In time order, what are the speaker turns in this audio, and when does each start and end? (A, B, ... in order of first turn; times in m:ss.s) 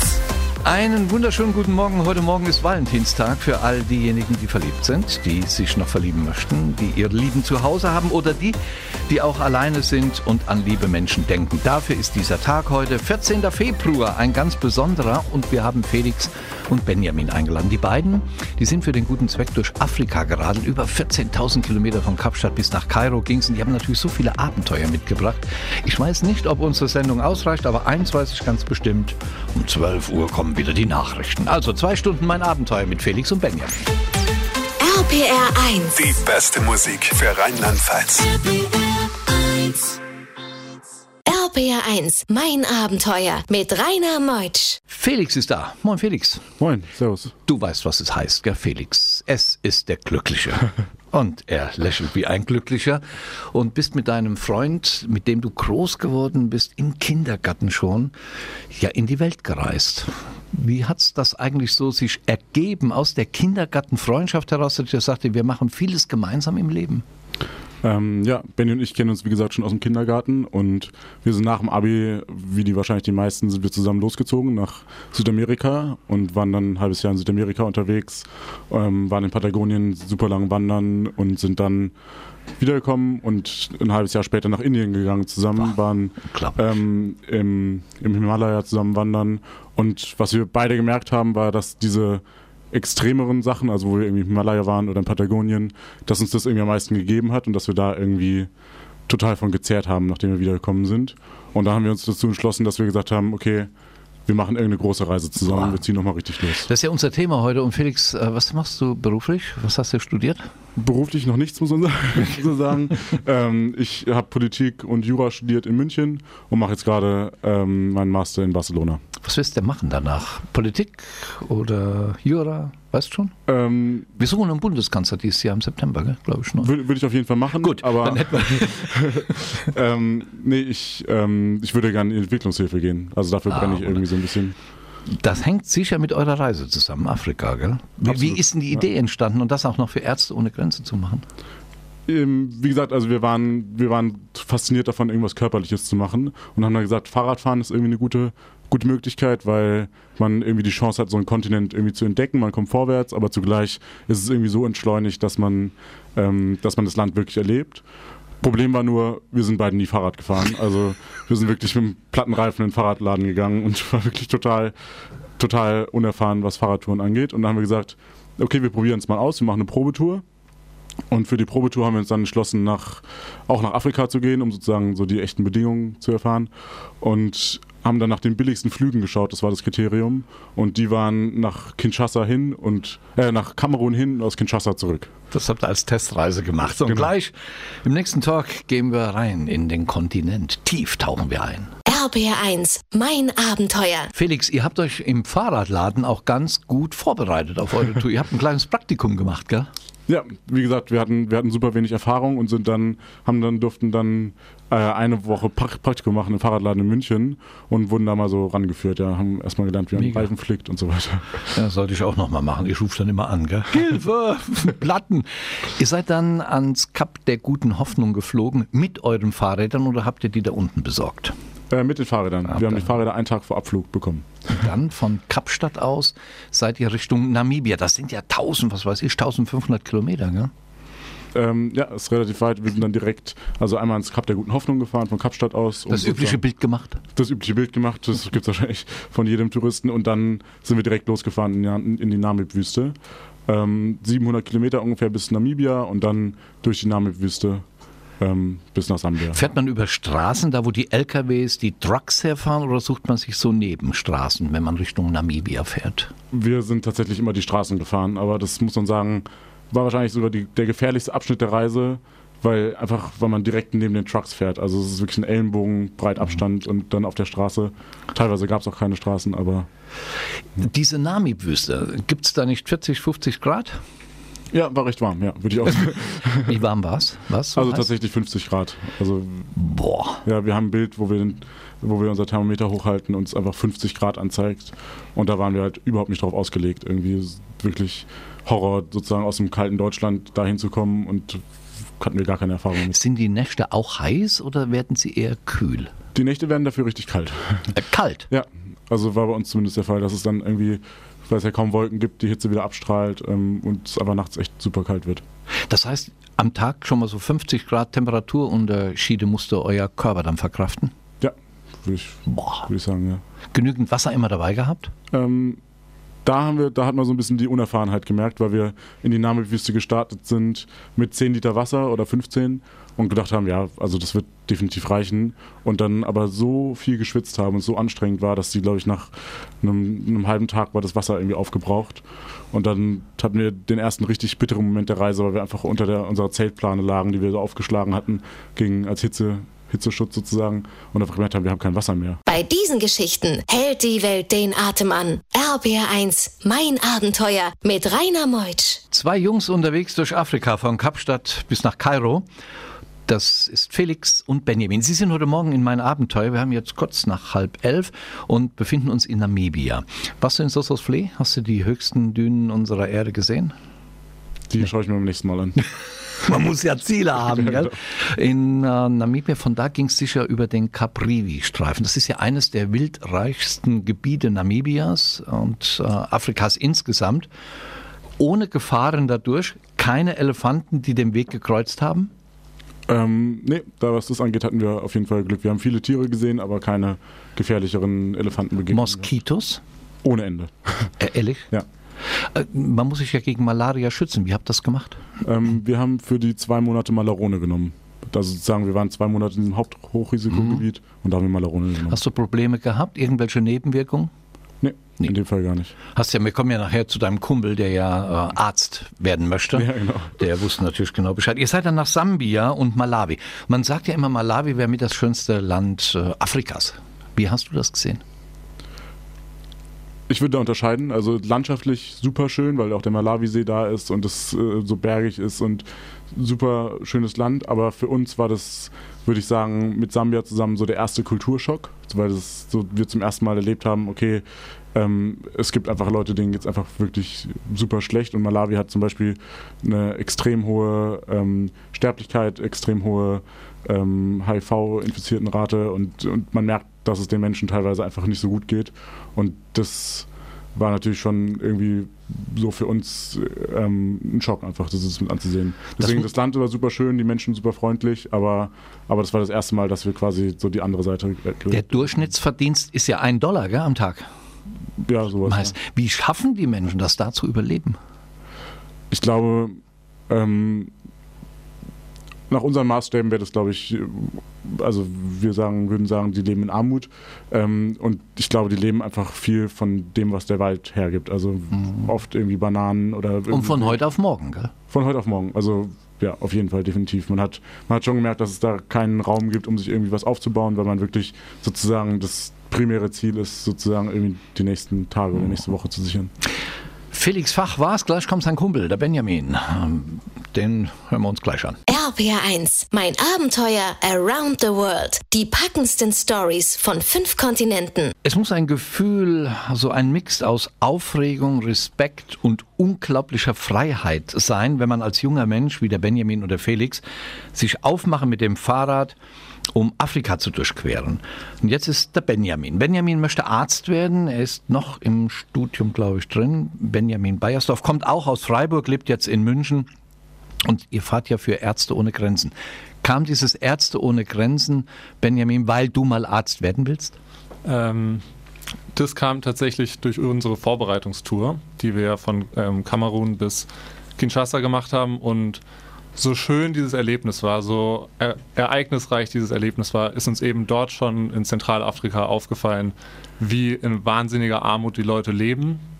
0:00.6-0:33.9 A
0:34.8-0:36.0 B
0:35.9-0:38.4 C
0:41.2-0:44.8 B
0:44.9-0:46.4 A
0:46.6-0:47.3 D
0:47.4-0:58.1 A
0:58.7-1:07.0 A
1:07.8-1:21.9 D
1:22.6-1:38.5 D
1:26.3-1:26.6 A
1:39.1-1:43.7 D
1:44.2-1:46.7 D
1:45.4-1:45.8 A
1:46.6-1:50.5 A
1:50.8-1:59.0 D
1:59.2-2:03.3 A
2:03.5-2:04.1 D
2:04.2-2:06.7 A
2:06.6-2:14.5 D
2:07.6-2:09.1 A
2:13.5-2:14.0 A
2:15.1-2:21.2 A
2:18.0-2:18.8 D
2:22.0-2:37.8 D
2:38.4-2:44.7 D
2:45.4-2:50.2 D
2:51.1-2:56.5 D
2:57.0-3:05.1 D
3:05.3-3:11.7 A
3:06.8-3:07.1 D
3:11.9-3:14.1 B
3:14.1-3:19.7 A
3:20.1-3:31.5 D
3:30.0-3:30.3 A
3:31.5-3:41.3 A
3:41.7-3:44.3 D
3:44.5-3:50.5 A
3:51.3-3:56.4 D
3:55.9-3:57.0 A
3:57.2-4:02.9 D
4:03.5-4:07.6 D
4:08.2-4:09.4 D
4:09.3-4:16.1 A
4:16.3-4:29.7 D
4:30.6-4:33.8 A
4:34.5-4:36.6 D
4:36.5-4:37.9 A
4:37.5-4:39.5 D
4:39.5-4:40.2 A
4:40.2-4:51.4 D
4:52.0-4:53.0 D
4:52.9-4:55.9 A
4:56.1-4:57.7 D
4:57.7-4:58.3 A
4:58.3-5:05.2 D
5:05.7-5:10.9 A
5:11.2-5:13.2 D
5:12.3-5:12.6 A
5:13.5-5:14.9 A
5:15.1-5:15.6 D
5:16.2-5:42.2 D
5:42.3-5:48.8 B
5:48.9-5:52.2 A
5:53.1-6:03.5 A
6:04.5-6:05.6 D
6:06.2-6:17.3 A
6:18.2-6:22.1 A
6:22.9-6:29.1 D
6:28.7-6:29.6 A
6:30.0-6:30.9 D
6:31.0-6:31.5 A
6:32.1-6:35.0 A
6:35.2-6:42.0 D
6:40.4-6:40.6 A
6:41.9-6:44.1 A
6:44.6-6:45.7 D
6:45.9-6:58.0 A
6:49.5-6:50.2 D
7:00.1-7:14.2 D
7:14.7-7:42.1 D
7:35.8-7:36.1 A
7:41.5-7:44.1 A
7:44.8-7:45.5 D
7:45.2-7:47.8 A
7:48.9-7:49.6 D
7:50.1-7:50.7 D
7:52.3-8:03.8 D
8:03.3-8:04.5 A
8:04.7-8:16.1 D
8:16.9-8:21.6 A
8:21.7-8:27.9 B
8:28.0-8:36.8 A
8:37.3-8:38.9 A
8:39.5-8:49.7 A
8:50.4-8:57.0 A
8:57.4-8:58.0 E
8:58.7-9:05.4 E
9:06.0-9:15.6 E